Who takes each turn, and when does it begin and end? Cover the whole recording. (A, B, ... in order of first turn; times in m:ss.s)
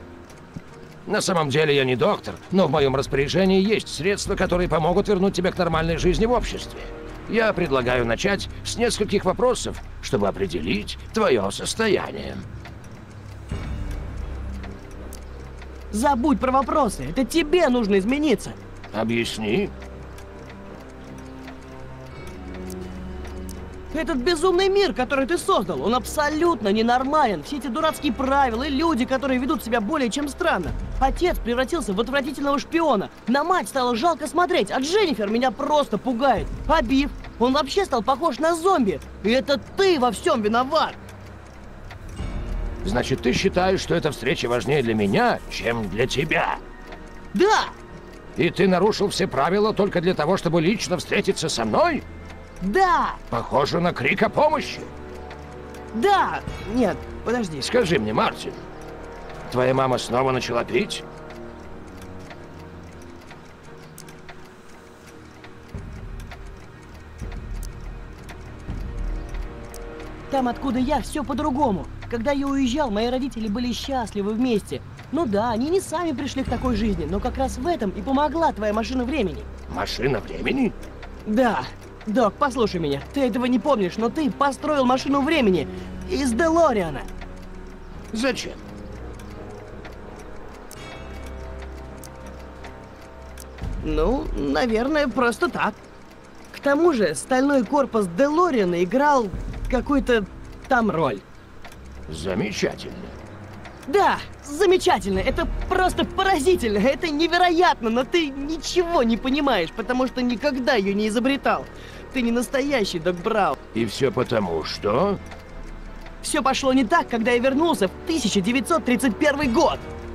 0:01.0-0:12.4 A
0:15.9-0:18.6 B
0:18.9-0:19.7 A
0:23.9-0:41.0 B
0:42.8-0:46.6 A
0:47.3-0:47.7 B
0:48.4-0:52.0 A
0:52.6-0:53.2 B
0:53.3-0:54.9 A
0:55.9-0:57.7 B
0:57.6-0:58.6 A
0:59.5-1:01.0 A
1:10.3-1:19.5 B
1:19.7-1:20.7 A
1:21.2-1:27.1 B
1:28.1-1:28.6 A
1:33.8-1:35.8 B
1:36.5-1:41.2 B
1:42.1-1:43.1 A
1:43.9-1:53.6 B
1:53.7-1:55.2 A
1:56.2-1:59.8 B